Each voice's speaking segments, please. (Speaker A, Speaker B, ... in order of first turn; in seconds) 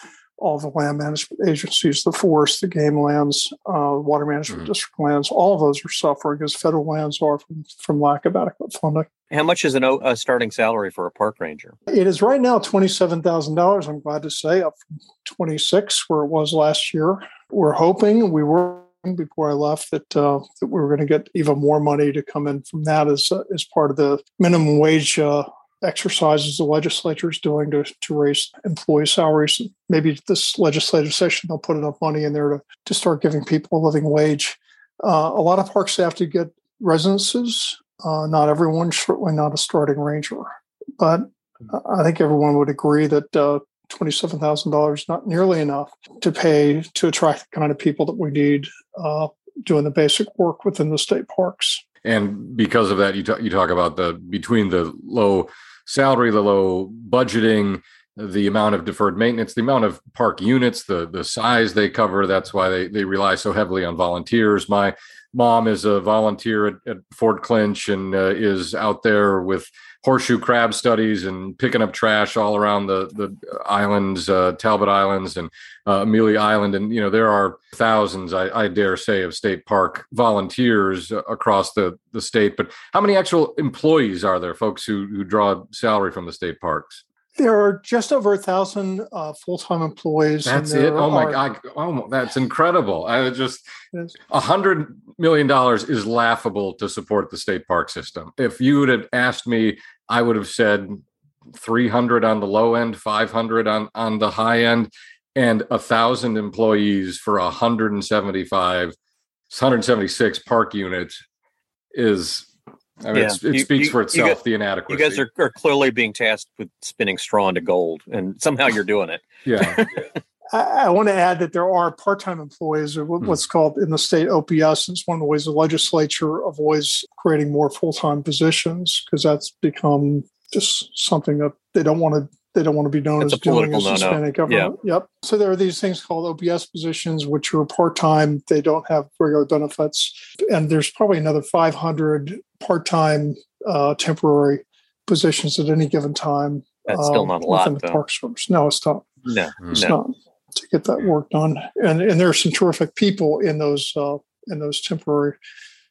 Speaker A: 0.4-9.1, 11.9-51.8, 87.3-91.4, 120.5-149.1, 149.7-155.4
Speaker B: 9.3-11.8, 113.1-114.4, 114.9-120.1, 133.2-134.7, 146.9-148.0, 149.2-150.0
Speaker C: 52.0-87.0, 90.4-93.6, 94.3-101.0, 101.5-109.0, 109.5-111.2, 111.9-112.5, 113.0-115.2, 119.5-119.8